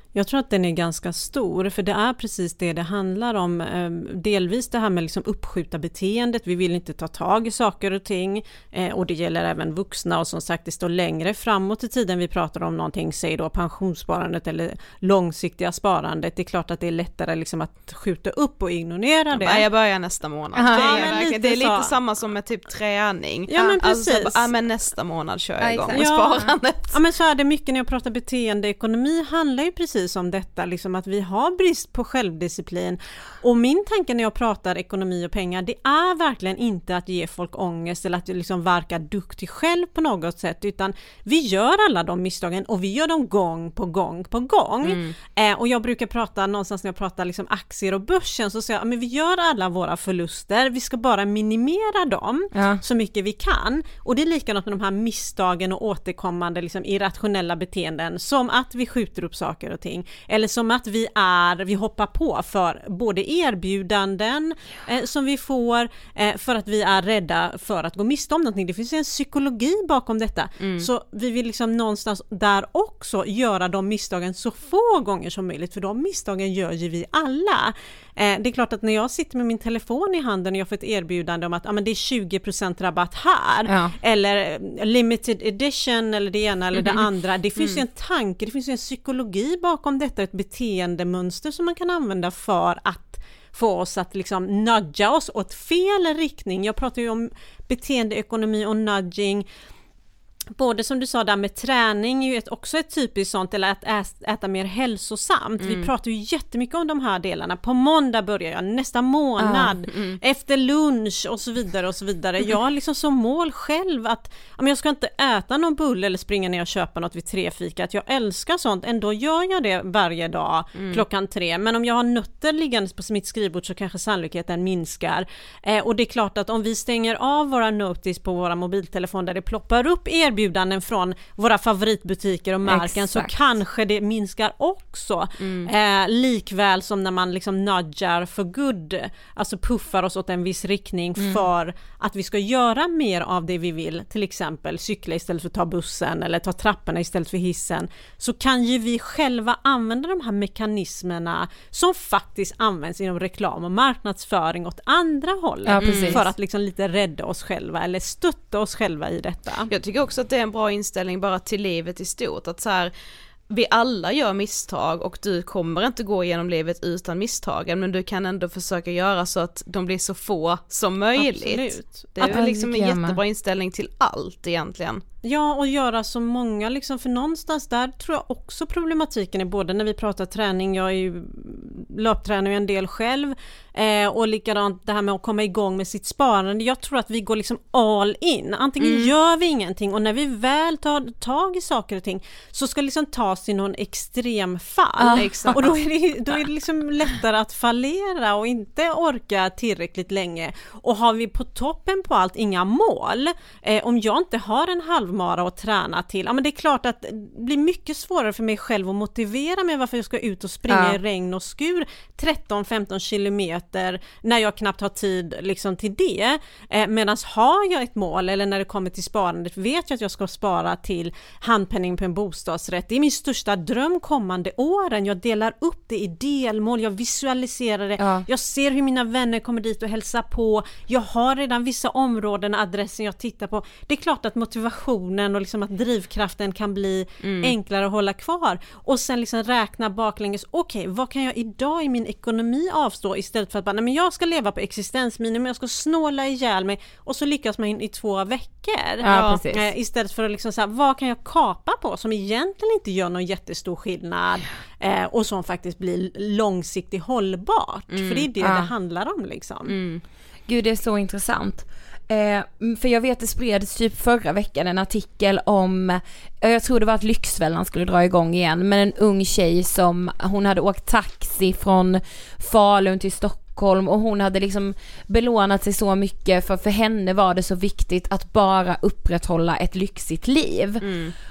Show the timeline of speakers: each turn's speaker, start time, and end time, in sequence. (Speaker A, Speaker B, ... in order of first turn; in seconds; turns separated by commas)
Speaker A: 0.1-19.7, Speaker B: 19.3-27.0, Speaker C: 20.5-21.1, Speaker A: 20.7-21.9, Speaker A: 23.5-24.4, Speaker C: 25.6-26.5, Speaker A: 25.9-99.5, Speaker B: 44.8-45.1, Speaker C: 52.5-52.8, Speaker B: 70.6-70.9, Speaker C: 83.7-83.9, Speaker B: 87.6-87.8, Speaker A: 100.5-159.7, Speaker B: 105.6-105.9, Speaker C: 109.4-109.8, Speaker B: 109.9-110.2, Speaker B: 120.7-121.0, Speaker C: 132.7-133.3, Speaker B: 135.4-135.7, Speaker C: 155.7-156.3, Speaker B: 155.8-156.2, Speaker B: 159.7-162.9, Speaker B: 163.5-175.0, Speaker A: 171.2-172.4, Speaker C: 172.2-173.2, Speaker A: 175.2-259.8, Speaker B: 188.8-189.1, Speaker C: 195.0-195.5, Speaker B: 195.1-195.8, Speaker C: 210.7-211.0, Speaker C: 228.0-228.2, Speaker B: 237.2-237.5, Speaker C: 249.0-249.7, Speaker B: 249.1-249.4, Speaker B: 257.9-258.3, Speaker C: 258.4-258.7, Speaker B: 259.6-260.0, Speaker C: 260.5-280.8, Speaker B: 280.8-281.1